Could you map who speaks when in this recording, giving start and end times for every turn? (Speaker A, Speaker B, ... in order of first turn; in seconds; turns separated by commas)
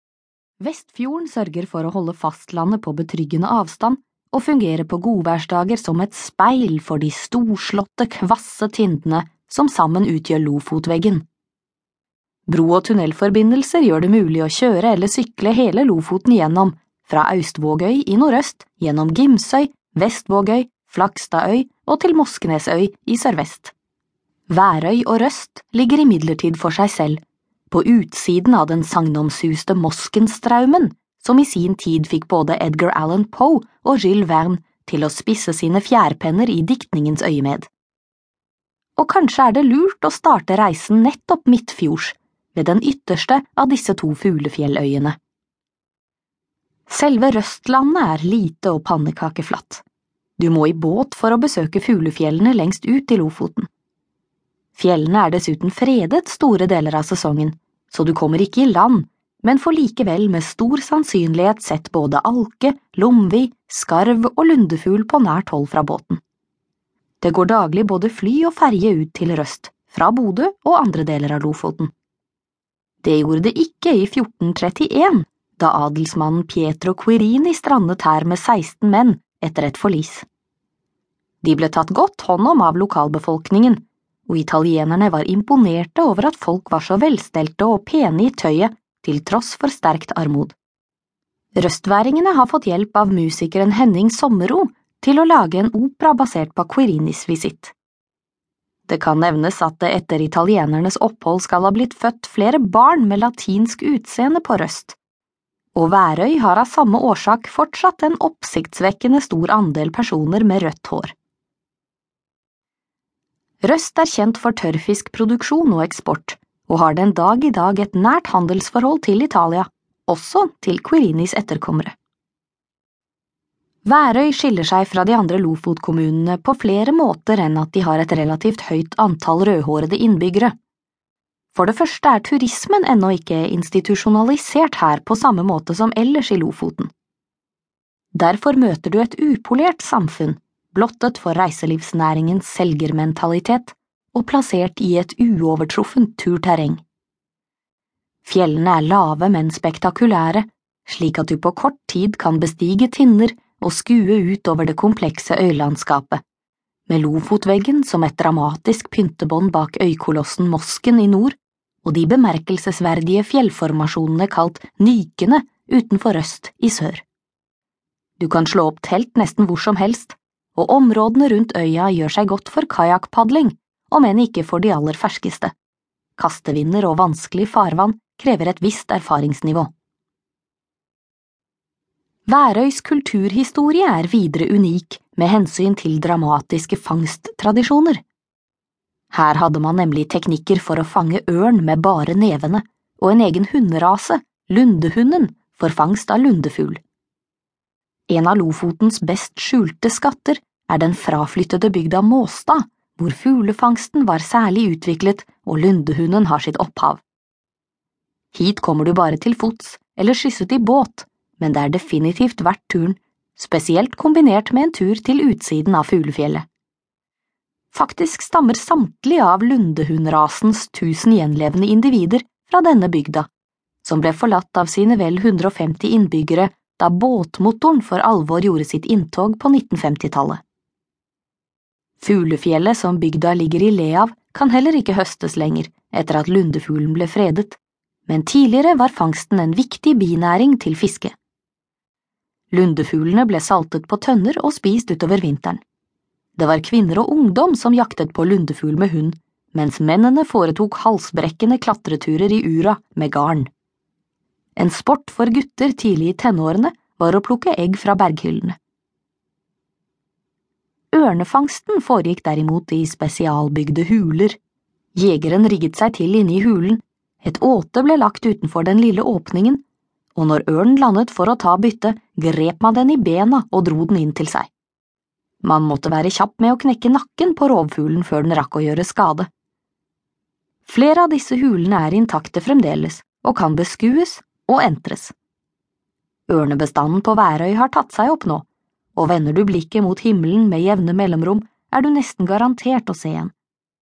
Speaker A: 0.6-11.2, Speaker A: 12.5-23.7, Speaker A: 24.5-27.2, Speaker A: 27.7-37.7, Speaker A: 39.0-45.2, Speaker A: 46.9-49.8, Speaker A: 50.4-53.7, Speaker A: 54.8-66.2, Speaker A: 67.2-71.9, Speaker A: 73.0-80.2, Speaker A: 81.4-90.6, Speaker A: 91.5-97.7, Speaker A: 98.9-105.0, Speaker A: 105.8-111.1, Speaker A: 113.6-122.0, Speaker A: 123.8-130.5, Speaker A: 131.5-136.9, Speaker A: 138.2-146.8, Speaker A: 148.2-156.2, Speaker A: 156.9-167.0, Speaker A: 168.2-175.5, Speaker A: 176.2-179.7, Speaker A: 182.3-188.0, Speaker A: 189.1-196.8, Speaker A: 198.1-207.0, Speaker A: 208.3-216.4, Speaker A: 217.7-223.3, Speaker A: 223.8-230.4, Speaker A: 232.0-241.2, Speaker A: 242.5-245.6, Speaker A: 246.4-253.5, Speaker A: 254.6-258.6, Speaker A: 260.9-264.4, Speaker A: 264.9-269.6, Speaker A: 270.1-274.5, Speaker A: 275.4-279.3, Speaker A: 280.6-285.1, Speaker A: 286.3-288.4, Speaker A: 288.9-293.3